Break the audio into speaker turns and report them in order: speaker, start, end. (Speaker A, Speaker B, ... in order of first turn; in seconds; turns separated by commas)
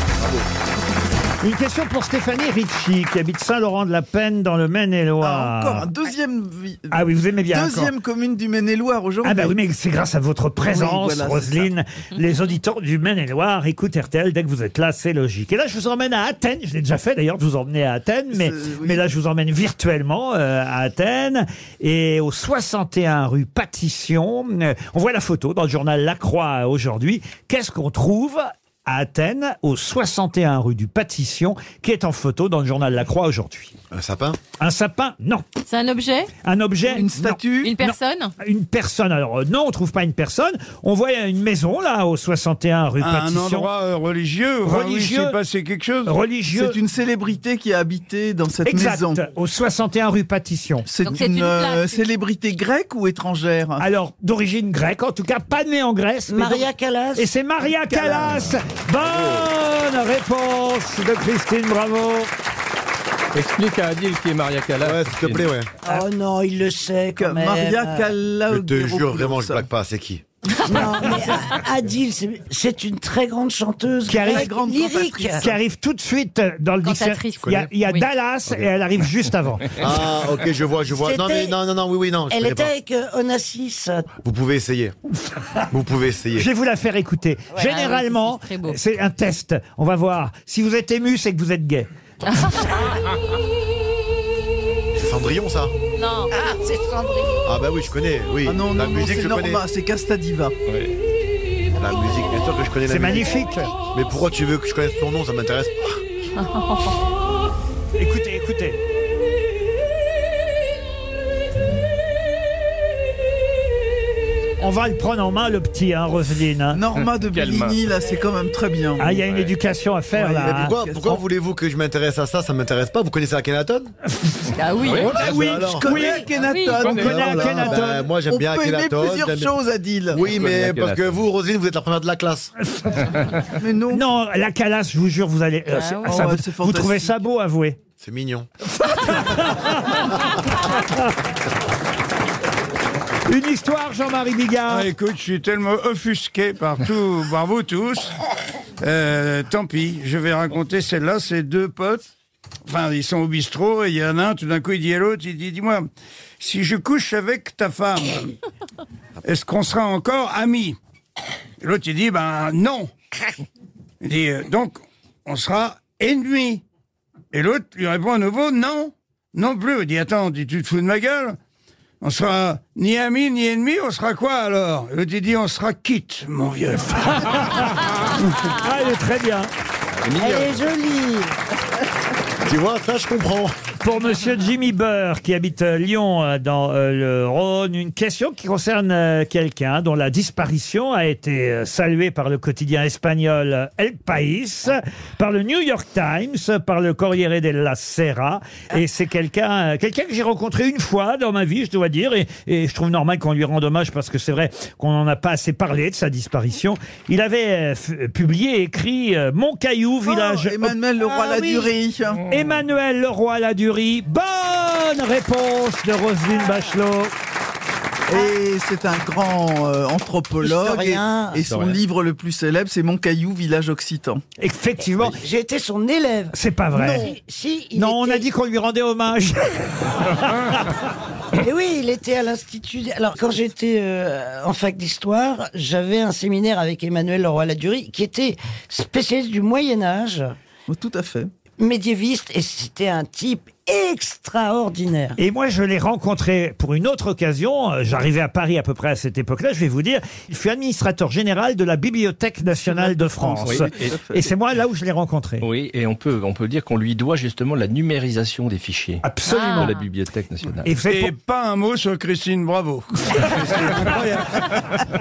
Speaker A: 1.4-5.9, Speaker B: 5.2-7.0, Speaker A: 6.9-7.9, Speaker B: 7.5-9.6, Speaker A: 9.2-33.8, Speaker B: 10.6-11.7, Speaker B: 18.3-19.0, Speaker C: 33.9-34.4, Speaker A: 34.6-35.5, Speaker D: 35.7-36.3, Speaker A: 36.4-43.7, Speaker B: 36.9-37.8, Speaker D: 37.6-38.3, Speaker E: 43.0-46.1, Speaker A: 44.6-45.4, Speaker A: 46.1-46.8, Speaker B: 46.5-49.2, Speaker A: 48.7-50.9, Speaker B: 50.9-53.8, Speaker D: 51.1-52.0, Speaker A: 53.8-62.3, Speaker F: 56.3-57.3, Speaker B: 57.9-58.6, Speaker C: 59.0-59.5, Speaker G: 63.3-65.5, Speaker C: 64.8-65.7, Speaker F: 65.8-68.1, Speaker B: 67.2-69.7, Speaker C: 68.5-70.2, Speaker F: 70.7-75.5, Speaker A: 74.1-74.5, Speaker B: 74.1-75.6, Speaker A: 75.4-79.9, Speaker D: 76.8-78.1, Speaker C: 77.4-77.7, Speaker C: 79.8-82.7, Speaker F: 81.0-81.6, Speaker F: 82.3-84.1, Speaker C: 84.2-85.0, Speaker C: 85.7-86.5, Speaker A: 86.4-91.9, Speaker D: 87.6-88.8, Speaker D: 92.4-92.7, Speaker C: 95.0-95.7, Speaker D: 96.0-96.3, Speaker F: 96.3-97.4, Speaker C: 97.5-99.6, Speaker B: 98.5-100.5, Speaker C: 101.8-106.0, Speaker A: 102.9-103.7, Speaker D: 106.4-106.9, Speaker A: 108.0-108.8, Speaker A: 114.6-116.8, Speaker B: 116.7-119.1, Speaker G: 117.0-117.8, Speaker A: 119.0-120.8, Speaker G: 119.2-119.5, Speaker B: 120.2-121.2, Speaker C: 120.4-123.9, Speaker D: 124.6-125.1, Speaker G: 124.8-125.1, Speaker C: 124.9-126.0, Speaker A: 125.1-128.1, Speaker B: 125.3-130.3, Speaker D: 126.3-127.0, Speaker C: 126.8-129.6, Speaker C: 130.1-132.5, Speaker G: 130.2-131.2, Speaker B: 133.6-134.0, Speaker A: 133.9-137.8, Speaker D: 135.7-136.2, Speaker B: 136.0-137.2, Speaker C: 138.0-138.5, Speaker A: 138.8-141.1, Speaker A: 143.3-144.9, Speaker E: 144.7-148.1, Speaker E: 148.8-152.1, Speaker E: 152.7-155.9, Speaker E: 156.4-158.3, Speaker E: 159.2-160.8, Speaker E: 161.6-162.9, Speaker E: 164.0-166.6, Speaker E: 167.3-171.4, Speaker E: 172.0-177.6, Speaker A: 177.3-177.6, Speaker A: 178.5-179.5, Speaker G: 180.0-180.6, Speaker F: 180.2-181.3, Speaker C: 182.4-183.6, Speaker A: 183.8-210.7, Speaker B: 210.1-212.2, Speaker F: 211.0-211.7, Speaker A: 212.3-217.1, Speaker B: 218.1-224.2, Speaker F: 220.4-221.4, Speaker G: 221.5-221.8, Speaker A: 224.4-225.2, Speaker F: 225.1-226.3, Speaker A: 226.3-227.1, Speaker B: 226.8-227.1, Speaker F: 226.9-228.2, Speaker A: 227.8-230.7, Speaker F: 231.4-240.3, Speaker B: 240.7-241.3, Speaker F: 241.6-245.2, Speaker A: 245.2-255.5, Speaker B: 252.6-254.3, Speaker G: 253.4-254.0, Speaker G: 255.4-260.7, Speaker A: 259.0-259.7, Speaker D: 259.3-259.8, Speaker A: 260.6-261.1, Speaker E: 260.9-264.6